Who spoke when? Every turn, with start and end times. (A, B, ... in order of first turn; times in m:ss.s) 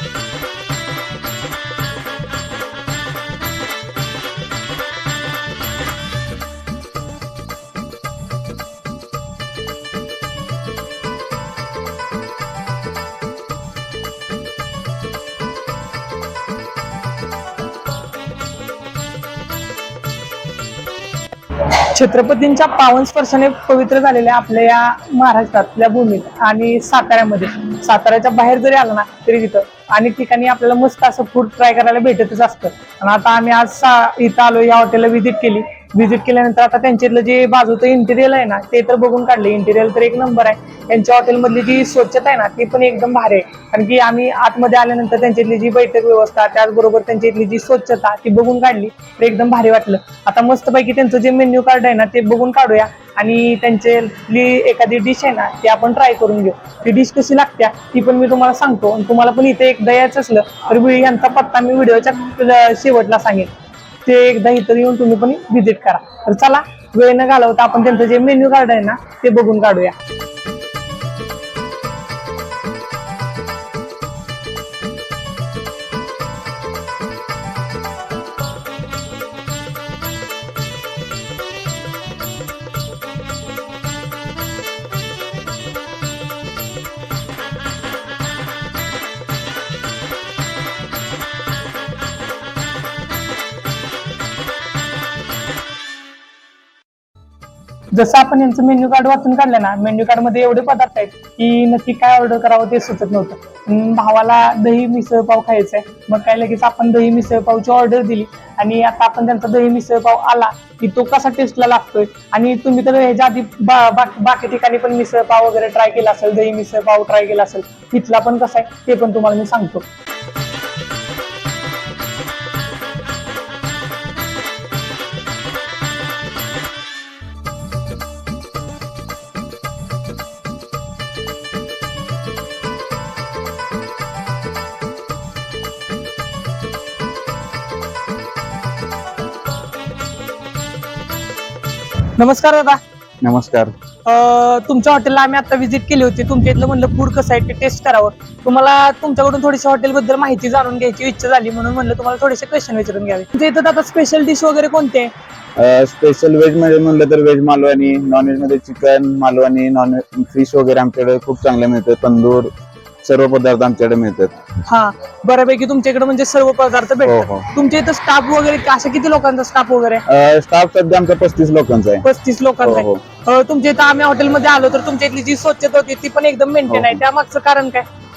0:21.6-1:03.5 A
1:04.0-1:10.0 A
1:37.9-1:59.8 A
2:22.2-2:22.8 A
2:23.2-2:23.7 B
2:24.0-2:35.1 A
2:35.6-2:42.5 B
2:43.0-2:44.4 B
2:44.6-2:50.0 A
2:47.0-2:47.5 B
2:50.1-2:52.0 B
2:52.0-2:57.8 A
2:52.6-2:53.0 B
2:56.7-2:57.0 B